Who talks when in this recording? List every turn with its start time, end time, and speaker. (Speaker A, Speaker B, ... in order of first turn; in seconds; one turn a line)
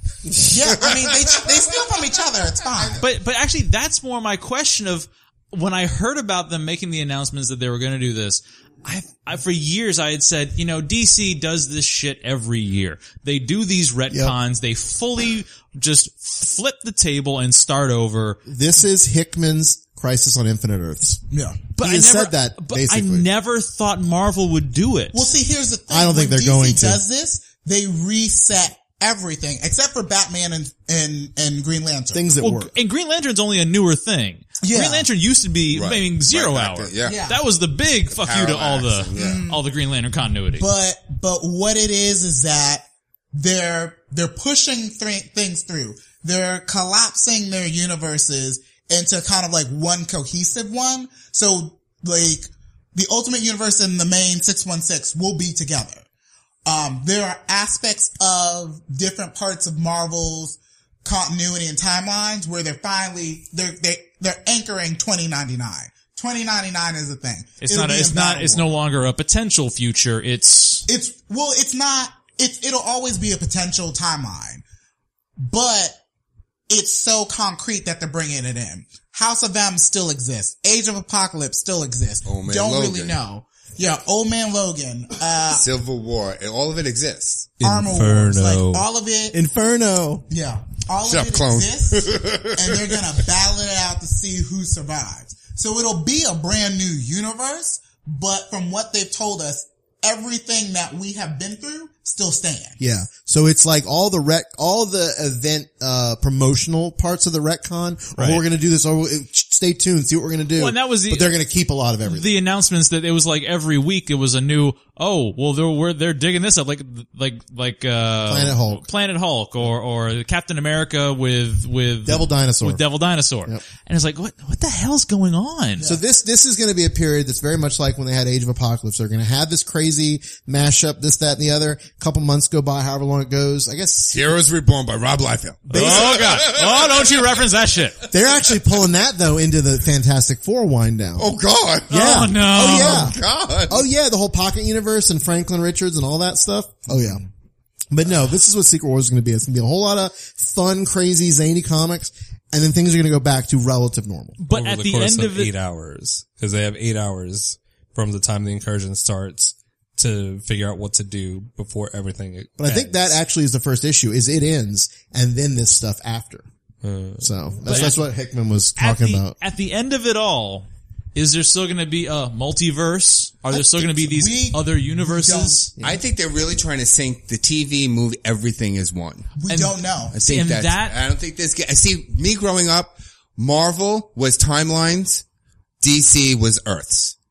Speaker A: 0.4-1.4
Speaker B: 0.5-3.0
Speaker C: 3.0-18.4
Speaker D: 14.1-14.3
Speaker D: 18.4-21.2
Speaker B: 21.3-21.6
Speaker C: 21.8-25.3
Speaker D: 21.8-23.3
Speaker B: 25.1-32.2
Speaker D: 25.9-27.0
Speaker D: 32.1-32.7
Speaker C: 32.4-40.6
Speaker B: 34.6-35.1
Speaker A: 35.7-37.2
Speaker B: 37.0-37.4
Speaker A: 38.1-39.5
Speaker B: 39.1-39.6
Speaker B: 40.6-56.0
Speaker B: 56.6-68.7
Speaker C: 67.6-70.9
Speaker B: 70.9-74.6
Speaker B: 75.4-76.0
Speaker B: 76.7-85.7
Speaker A: 82.2-83.2
Speaker A: 85.5-87.6
Speaker E: 87.6-88.8
Speaker B: 87.6-89.3
Speaker D: 89.3-90.3
Speaker B: 90.3-102.8
Speaker A: 91.0-93.0
Speaker D: 102.8-112.4
Speaker C: 108.2-108.4
Speaker C: 110.5-111.4
Speaker C: 112.0-125.8
Speaker D: 118.2-118.9
Speaker D: 122.0-122.8
Speaker D: 125.8-134.2
Speaker A: 134.1-137.4
Speaker C: 135.7-138.0
Speaker D: 135.7-136.2
Speaker D: 138.1-141.3
Speaker A: 141.2-143.8
Speaker C: 141.9-143.1
Speaker D: 141.9-147.2
Speaker D: 147.9-154.4
Speaker C: 154.4-155.5
Speaker E: 154.5-162.6
Speaker D: 162.6-166.5
Speaker C: 162.7-162.9
Speaker E: 166.8-167.3
Speaker D: 167.2-169.3
Speaker C: 167.6-168.0
Speaker C: 168.8-175.7
Speaker B: 173.5-175.7
Speaker A: 175.8-179.3
Speaker B: 179.4-180.2
Speaker C: 179.5-181.0
Speaker A: 180.1-185.2
Speaker A: 185.8-187.2